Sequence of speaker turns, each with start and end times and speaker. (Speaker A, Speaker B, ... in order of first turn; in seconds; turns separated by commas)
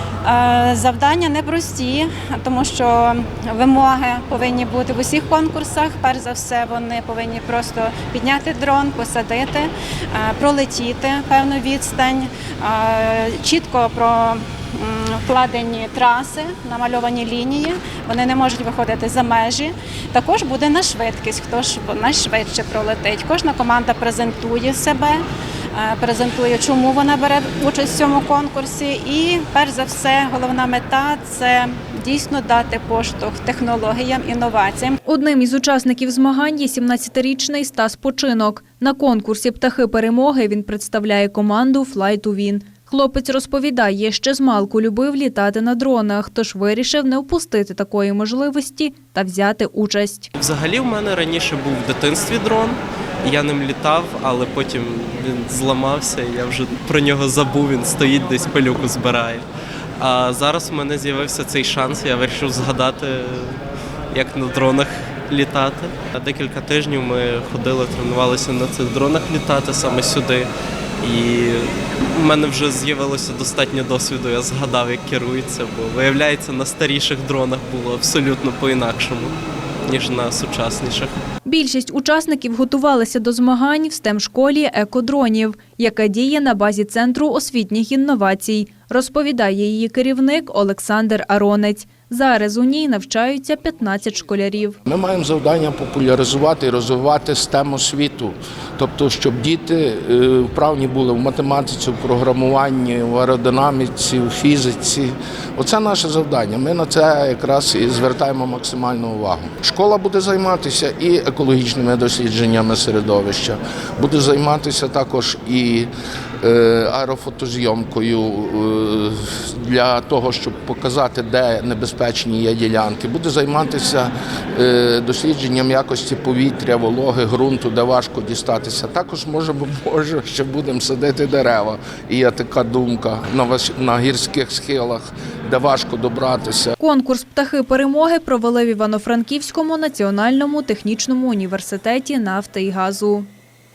Speaker A: 0.2-35.0, Speaker B: 35.1-50.3, Speaker C: 50.4-59.5, Speaker C: 60.0-63.6, Speaker C: 64.1-70.5, Speaker C: 71.0-79.3, Speaker C: 79.9-81.1, Speaker B: 81.5-94.8, Speaker D: 94.9-115.9, Speaker D: 116.4-136.8, Speaker B: 136.8-143.3